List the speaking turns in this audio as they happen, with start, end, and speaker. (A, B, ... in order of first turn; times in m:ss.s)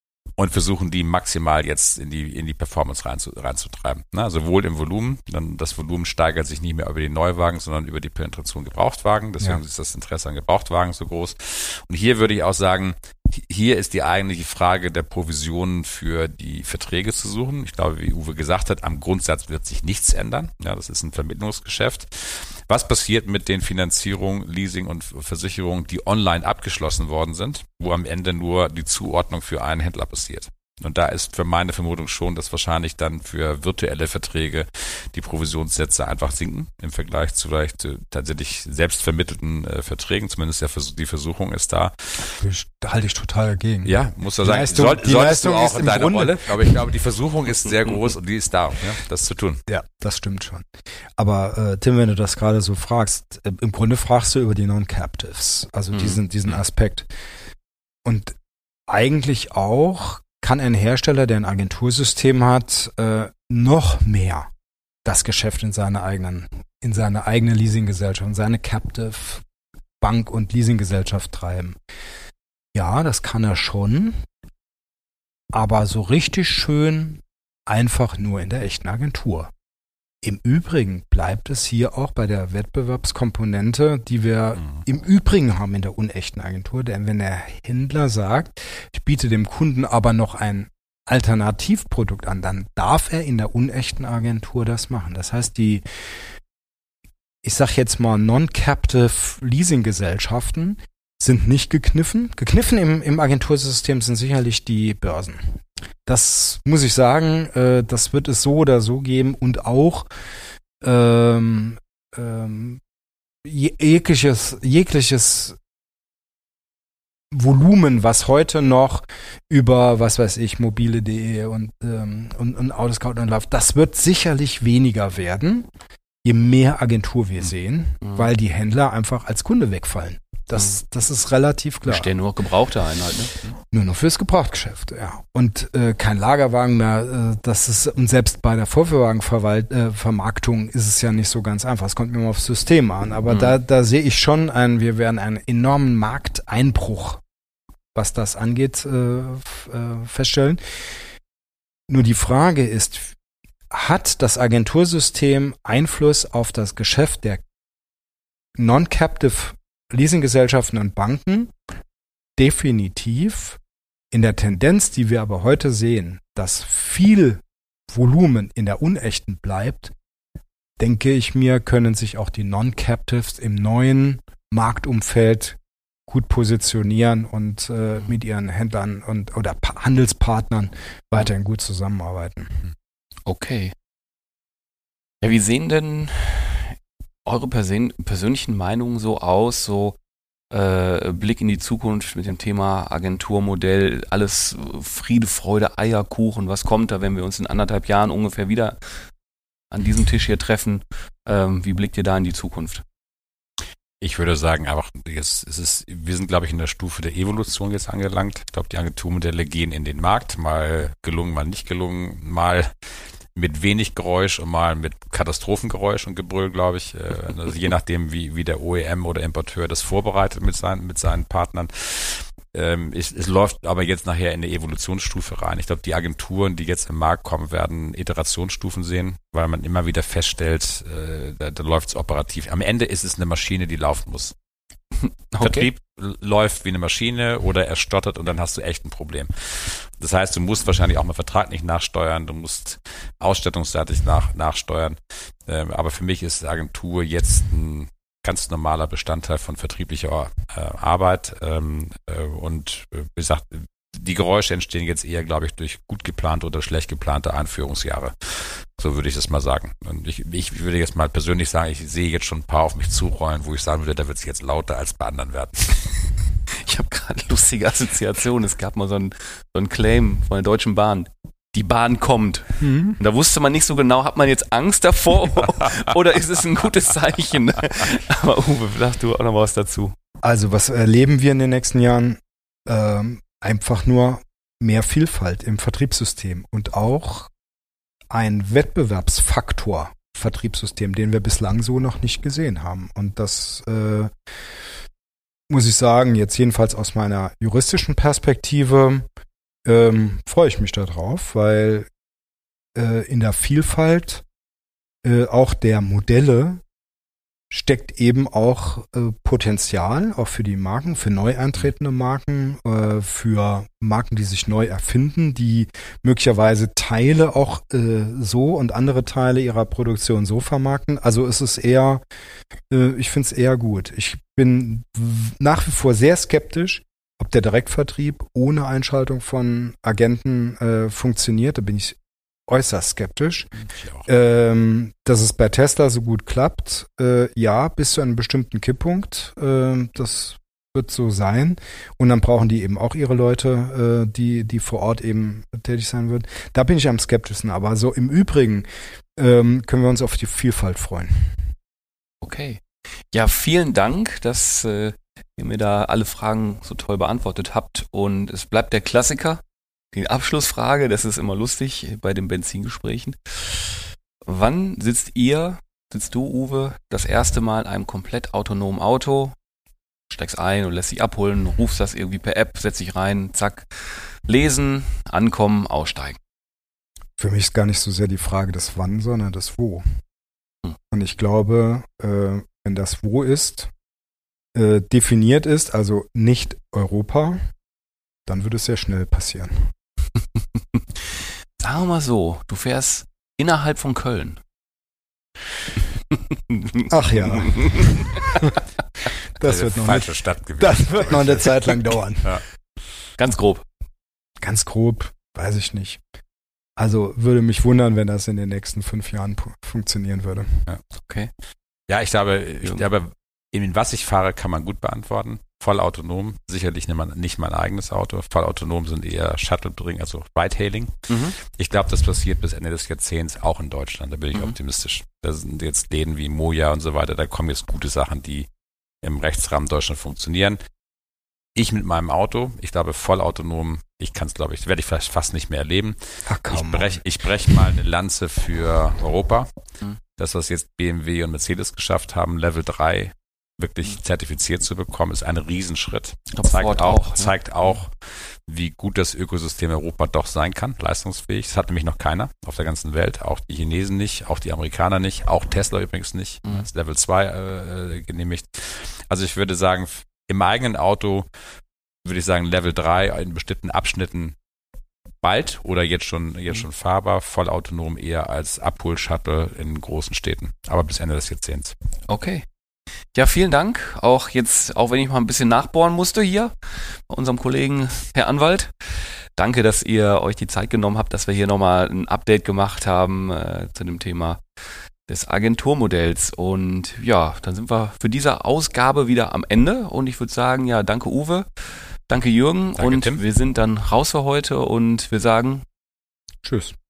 0:00.4-0:42.4 A
0:42.4-0:46.8 B
0:43.8-0:49.6 A
0:49.7-0:57.1 B
0:58.0-0:58.3 B
0:58.9-1:04.5 B
1:05.0-1:09.4 B
1:10.0-1:11.8 B
1:12.7-1:14.2 B
1:15.5-1:19.5 B
1:20.2-1:35.8 B
1:37.4-1:50.1 B
1:50.8-1:52.8 B
1:53.4-1:55.6 B
1:57.3-2:05.7 B
2:06.2-2:12.1 B
2:08.0-2:08.3 C
2:11.8-2:13.4 C
2:13.7-2:27.2 B
2:27.9-2:30.6 B
2:31.9-2:33.1 B
2:33.7-2:37.4 B
2:38.6-2:41.5 B
2:42.4-2:43.6 B
2:44.1-2:49.9 B
2:50.8-3:02.6 B
3:03.2-3:03.7 C
3:05.2-3:10.0 C
3:10.5-3:18.8 C
3:19.7-3:22.8 C
3:24.0-3:32.7 A
3:33.3-3:54.3 A
3:55.0-3:55.7 C
3:55.4-4:26.0 A
4:26.5-4:40.0 C
4:32.6-4:33.0 B
4:40.2-4:47.3 B
4:48.1-4:54.1 B
4:55.5-4:59.1 B
4:59.6-5:01.9 B
5:02.7-5:04.2 B
5:05.0-5:06.6 B
5:07.5-5:22.0 B
5:22.7-5:33.5 B
5:33.7-5:34.0 A
5:34.0-5:51.5 B
5:52.2-5:59.4 C
5:59.9-6:09.4 C
6:10.1-6:16.2 C
6:17.2-6:19.8 B
6:20.9-6:23.7 B
6:24.5-6:27.4 B
6:28.2-6:29.7 B
6:30.8-6:34.4 C
6:36.3-6:38.4 C
6:36.9-6:38.5 B
6:39.4-6:42.3 B
6:39.4-6:42.4 A
6:43.2-6:43.6 C
6:44.4-6:46.0 B
6:46.8-6:50.6 B
6:50.9-6:51.3 C
6:51.9-7:08.5 A
7:01.1-7:01.4 C
7:09.0-7:10.6 A
7:11.6-7:19.5 A
7:16.3-7:17.0 B
7:20.2-7:41.3 A
7:26.3-7:27.3 C
7:42.0-7:44.3 A
7:45.2-7:51.7 A
7:52.1-7:52.4 C
7:53.1-8:04.4 C
8:05.1-8:11.5 C
8:12.1-8:15.6 C
8:12.8-8:13.2 A
8:16.4-8:16.7 B